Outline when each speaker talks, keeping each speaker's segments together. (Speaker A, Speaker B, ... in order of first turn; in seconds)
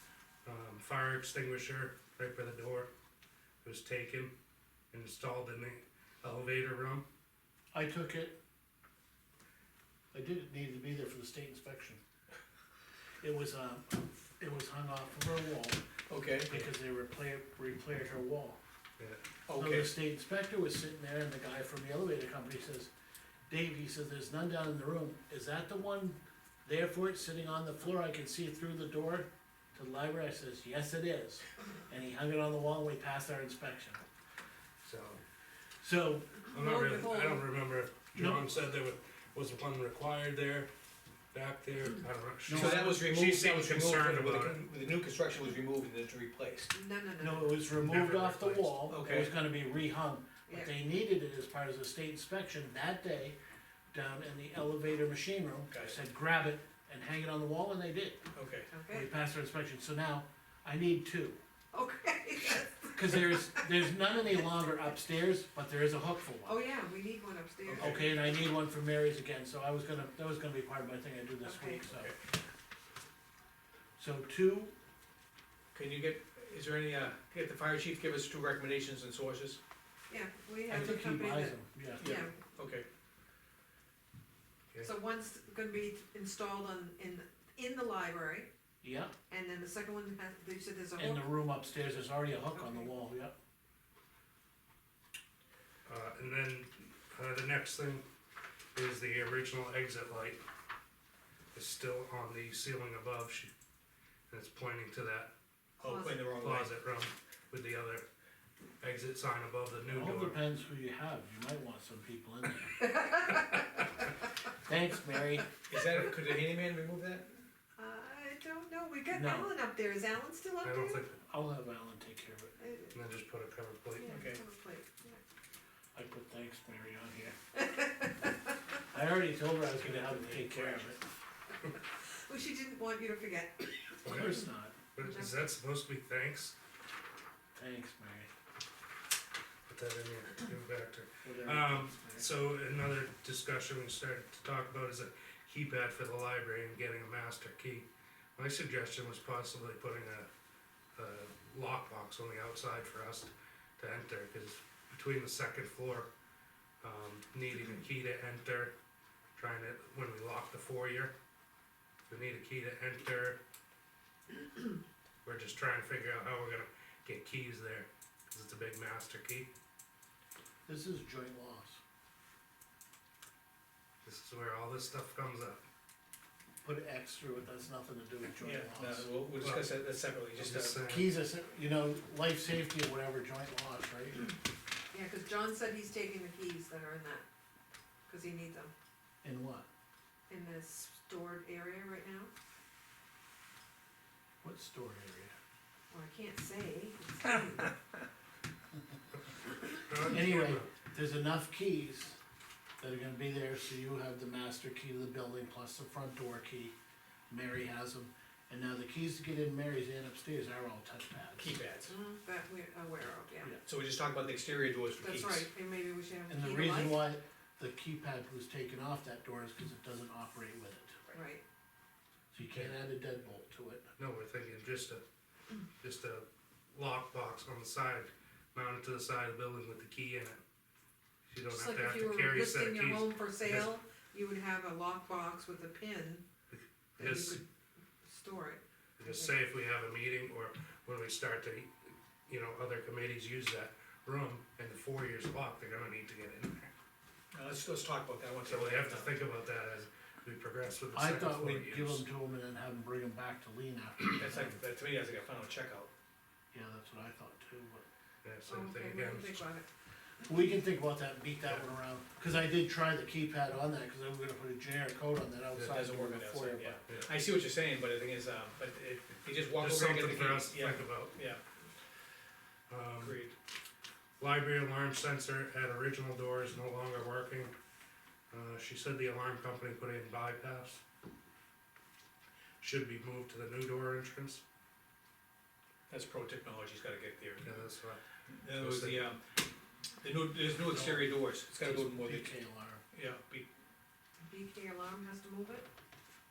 Speaker A: 0.5-2.9, 3.6-4.3, 4.9-7.1, 34.8-35.2, 36.5-40.7, 41.3-44.7, 47.7-48.8, 95.9-98.0, 98.8-100.4, 101.5-103.5, 104.3-105.3, 106.3-108.0, 108.8-110.4, 120.6-121.2, 122.9-124.1, 134.0-134.4, 134.9-136.6, 139.7-150.3, 150.9-156.1, 156.8-158.7, 159.4-161.1, 162.1-163.4, 165.2-169.5, 174.0-175.7, 179.4-179.7, 180.4-181.1, 199.9-200.7, 224.0-225.0, 225.8-230.4, 231.3-233.7, 236.5-237.4, 239.0-246.7, 248.4-252.1, 258.2-259.4, 269.6-271.1, 272.7-273.2, 274.2-277.5, 278.3-280.8, 282.6-284.4, 287.4-288.0, 288.5-289.1
Speaker B: 7.7-8.4, 10.1-12.0, 13.2-15.8, 16.5-18.6, 19.5-22.9, 23.5-34.0, 35.8-36.4, 38.1-38.5, 42.5-43.0, 47.2-53.4, 53.9-58.3, 58.9-61.4, 63.0-66.6, 67.8-72.2, 74.0-74.7, 80.7-82.1, 88.8-89.1, 91.0-93.3, 109.8-112.8, 114.7-115.5, 119.1-119.5, 121.2-122.6, 125.9-127.4, 128.9-131.0, 134.0-134.8, 137.6-138.3, 141.2-142.3, 170.7-171.8, 176.6-179.1, 180.8-184.3, 189.2-189.7, 194.4-195.3, 200.1-202.2, 202.8-206.7, 207.3-211.5, 216.3-221.0, 222.3-223.8, 250.9-254.6, 256.5-257.9, 260.2-266.9, 291.6-292.8
Speaker C: 16.1-16.6, 19.5-19.9, 42.5-46.7, 48.9-49.3, 55.7-56.0, 58.3-58.7, 67.7-68.2, 71.9-72.2, 75.7-79.6, 82.0-82.9, 105.8-106.7, 115.7-117.3, 124.1-124.4, 129.7-131.0, 178.4-180.8, 211.4-211.9, 213.6-215.5, 247.3-249.2, 254.2-255.9, 265.6-271.4, 273.0-273.3, 285.9-287.6, 288.3-289.2, 290.0-292.3, 292.9-293.5
Speaker D: 36.5-37.5, 46.7-47.6, 50.5-50.7, 58.7-59.1, 61.7-63.7, 66.5-68.0, 71.4-71.9, 80.1-82.3, 84.8-88.5, 89.3-91.3, 92.5-92.9, 105.8-106.3, 112.8-113.6, 117.8-121.1, 122.6-123.0, 124.0-125.2, 127.6-128.4, 131.7-134.4, 135.0-135.4, 184.9-187.2, 188.1-188.7, 190.3-192.3, 195.9-197.7, 211.9-213.6, 215.0-217.1, 221.1-221.4, 231.5-236.2, 237.0-237.4, 238.0-239.3, 258.5-259.7, 294.2-295.7